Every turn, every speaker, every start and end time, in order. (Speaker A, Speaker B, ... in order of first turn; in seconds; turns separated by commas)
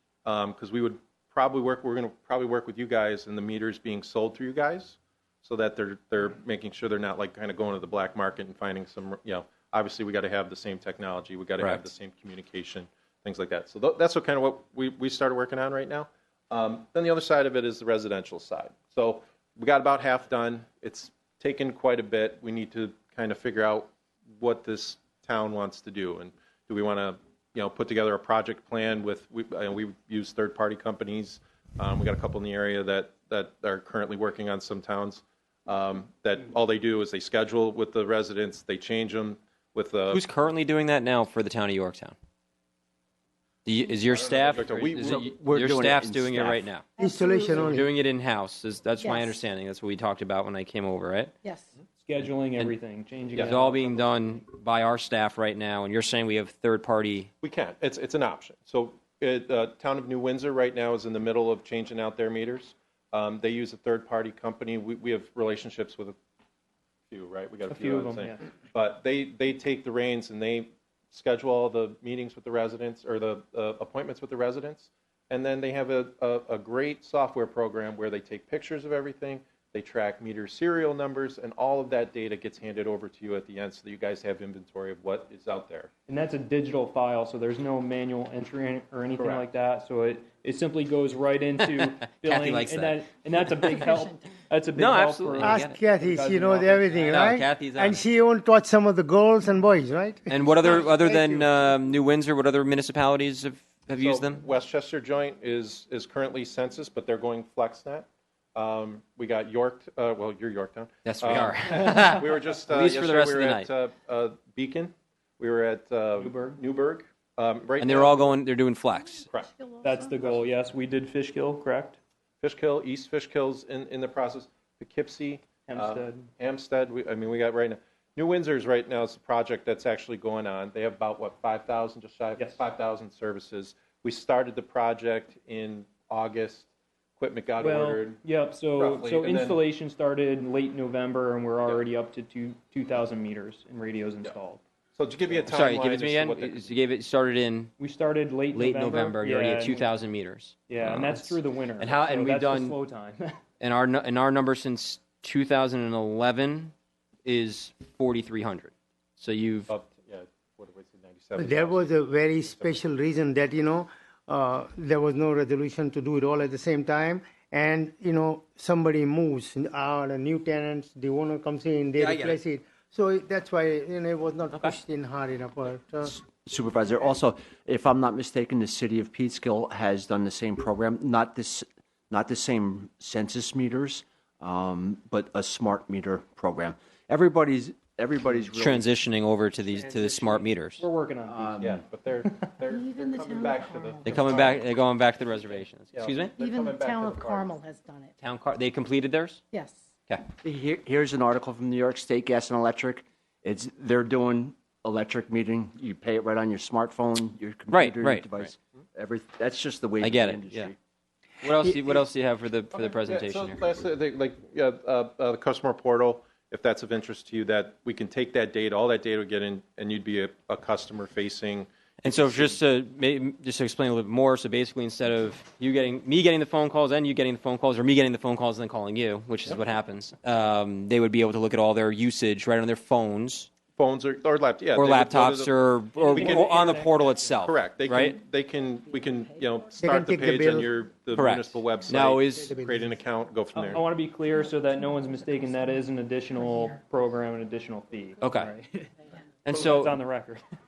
Speaker A: 0.2-40.2, Speaker B: 40.1-42.2, Speaker B: 43.6-46.9, Speaker A: 44.1-45.3, Speaker C: 45.0-46.7, Speaker D: 47.0-47.7, Speaker E: 47.0-47.9, Speaker B: 47.5-51.3, Speaker D: 49.0-49.4, Speaker F: 52.0-54.1, Speaker B: 53.4-57.3, Speaker A: 57.4-66.2, Speaker A: 67.1-85.9, Speaker F: 67.7-68.4, Speaker F: 86.1-97.2, Speaker A: 89.2-89.4, Speaker B: 91.7-93.8, Speaker B: 94.8-95.8, Speaker E: 95.4-101.5, Speaker B: 97.1-98.0, Speaker B: 100.3-104.4, Speaker A: 104.0-118.3, Speaker B: 111.0-113.7, Speaker F: 116.2-116.6, Speaker B: 117.8-119.3, Speaker A: 119.3-119.6, Speaker F: 119.8-122.0, Speaker A: 122.4-138.2, Speaker F: 125.7-126.3, Speaker F: 132.4-132.6, Speaker F: 137.6-144.6, Speaker A: 138.8-139.6, Speaker A: 145.0-146.7, Speaker B: 145.5-147.7, Speaker F: 147.8-149.9, Speaker B: 148.5-152.8, Speaker F: 150.7-153.4, Speaker B: 153.6-156.7, Speaker B: 157.2-159.7, Speaker A: 159.7-162.8, Speaker E: 161.4-176.2, Speaker B: 172.0-172.4, Speaker C: 176.0-188.9, Speaker B: 188.6-190.8, Speaker F: 190.8-191.7, Speaker C: 191.2-191.8, Speaker A: 191.6-194.7, Speaker F: 192.2-192.5, Speaker D: 192.8-194.4, Speaker B: 194.0-196.3, Speaker A: 195.9-197.6, Speaker D: 196.4-198.1, Speaker B: 198.2-199.4, Speaker D: 199.5-199.8, Speaker C: 200.4-210.8, Speaker B: 207.7-208.5, Speaker B: 210.0-210.7, Speaker B: 211.4-213.8, Speaker A: 212.7-222.6, Speaker B: 222.0-233.5, Speaker A: 233.8-235.5, Speaker B: 234.7-238.2, Speaker F: 235.9-237.4, Speaker A: 236.1-236.8, Speaker A: 237.4-243.8, Speaker E: 239.8-240.7, Speaker B: 241.1-242.6, Speaker E: 242.2-242.8, Speaker F: 243.5-250.4, Speaker B: 248.2-248.5, Speaker B: 249.4-249.9